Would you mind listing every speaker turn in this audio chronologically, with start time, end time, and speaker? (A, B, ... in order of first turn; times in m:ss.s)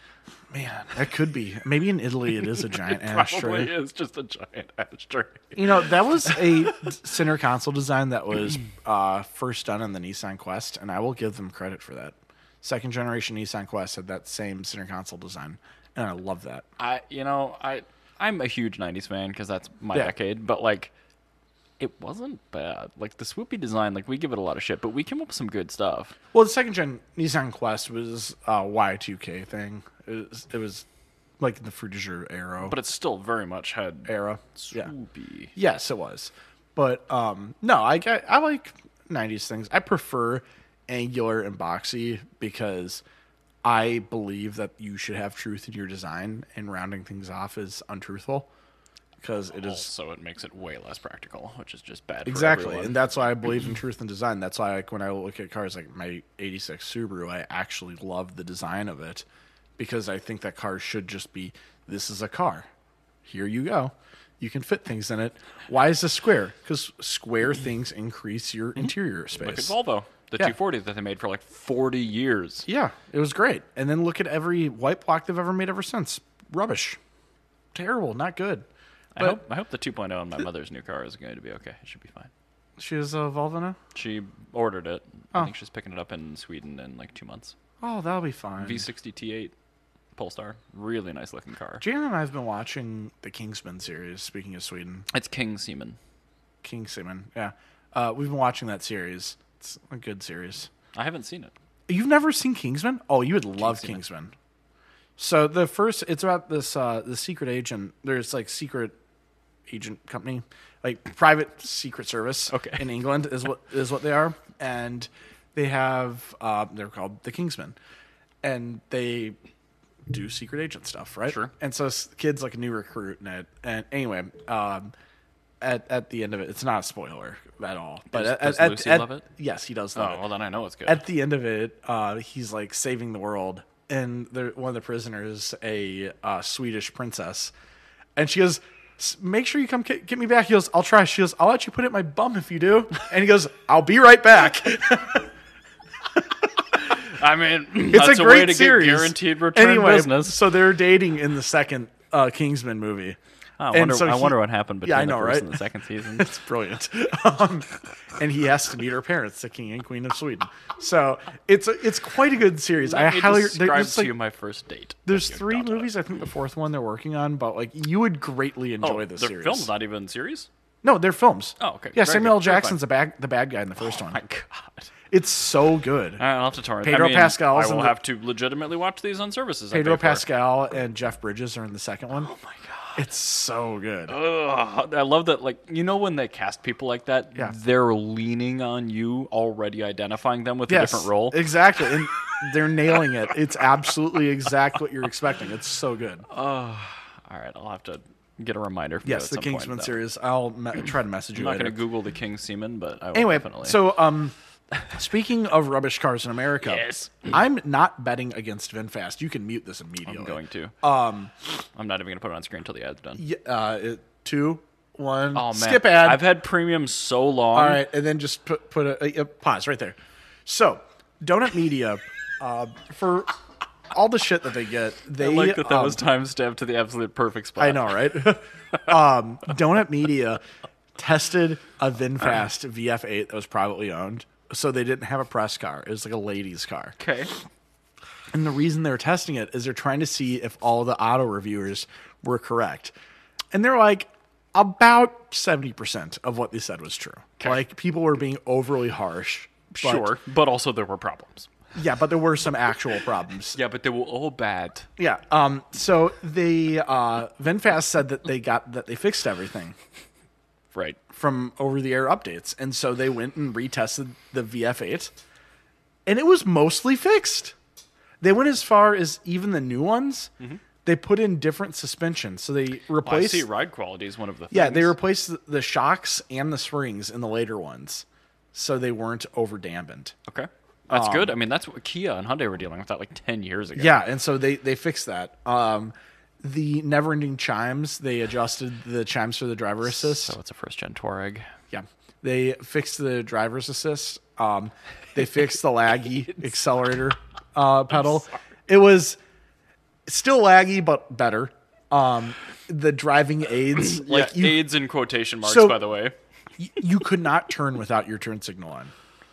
0:00.5-0:03.7 A
0:02.6-0:06.7 B
0:05.6-0:16.6 A
0:16.8-0:20.9 B
0:21.8-0:26.1 B
0:26.3-0:30.8 A
0:31.4-0:32.7 A
0:32.6-0:35.5 B
0:34.1-0:34.9 A
0:35.5-0:43.0 A
0:43.6-0:48.5 A
0:49.2-0:49.9 A
0:49.5-0:53.0 B
0:52.2-0:59.2 A
0:59.8-1:02.7 A
1:03.2-1:09.7 A
1:09.4-1:12.7 B
1:12.7-1:17.0 A
1:17.7-1:18.6 A
1:19.1-1:22.3 B
1:22.8-1:23.8 A
1:23.9-1:27.5 B
1:27.8-1:28.8 A
1:28.6-1:29.5 B
1:30.1-1:31.8 B
1:31.8-1:35.1 A
1:35.1-1:36.0 B
1:36.6-1:40.7 A
1:40.9-1:41.5 B
1:41.9-1:44.3 A
1:43.6-1:44.0 B
1:45.2-1:48.9 A
1:49.7-1:57.8 A
1:52.5-1:52.8 B
1:58.4-1:59.4 A
2:00.1-2:04.9 A
2:01.3-2:01.5 B
2:05.6-2:10.2 A
2:08.1-2:09.2 B
2:09.9-2:11.0 B
2:10.8-2:17.5 A
2:18.2-2:25.3 A
2:26.8-2:30.4 B
2:27.9-2:33.2 A
2:33.6-2:36.3 B
2:33.7-2:44.1 A
2:42.8-2:45.9 B
2:45.0-2:49.7 A
2:48.8-2:50.5 B
2:50.8-2:54.2 A
2:51.6-2:52.8 B
2:53.8-2:54.9 B
2:55.1-2:56.2 A
2:56.2-3:00.3 B
2:56.8-2:58.0 A
2:59.7-3:02.3 A
3:02.1-3:03.0 B
3:03.0-3:04.1 A
3:04.1-3:11.5 B
3:10.7-3:16.2 A
3:16.3-3:20.0 B
3:19.0-3:21.8 A
3:21.3-3:23.9 B
3:23.1-3:24.3 A
3:24.9-3:31.3 A
3:26.6-3:27.3 B
3:30.0-3:30.7 B
3:31.8-3:33.2 B
3:33.2-3:36.2 A
3:35.3-3:37.8 B
3:37.5-3:43.3 A
3:43.9-3:46.0 A
3:45.2-3:48.0 B
3:47.6-3:50.4 A
3:51.0-3:56.9 A
3:57.0-3:57.3 B
3:58.3-4:02.9 A
4:03.5-4:10.1 A
4:09.7-4:11.5 B
4:11.7-4:13.6 A
4:13.5-4:14.9 B
4:15.0-4:19.7 A
4:20.7-4:21.0 B
4:21.1-4:25.1 A
4:26.0-4:27.5 A
4:28.2-4:30.3 A
4:30.8-4:33.5 A
4:33.0-4:35.0 B
4:34.5-4:40.1 A
4:40.3-4:44.0 B
4:40.9-4:41.3 A
4:43.8-4:50.3 A
4:49.9-4:51.5 B
4:51.7-4:59.2 A
5:00.0-5:04.7 A
5:03.8-5:06.1 B
5:05.4-5:05.8 A
5:06.6-5:08.9 A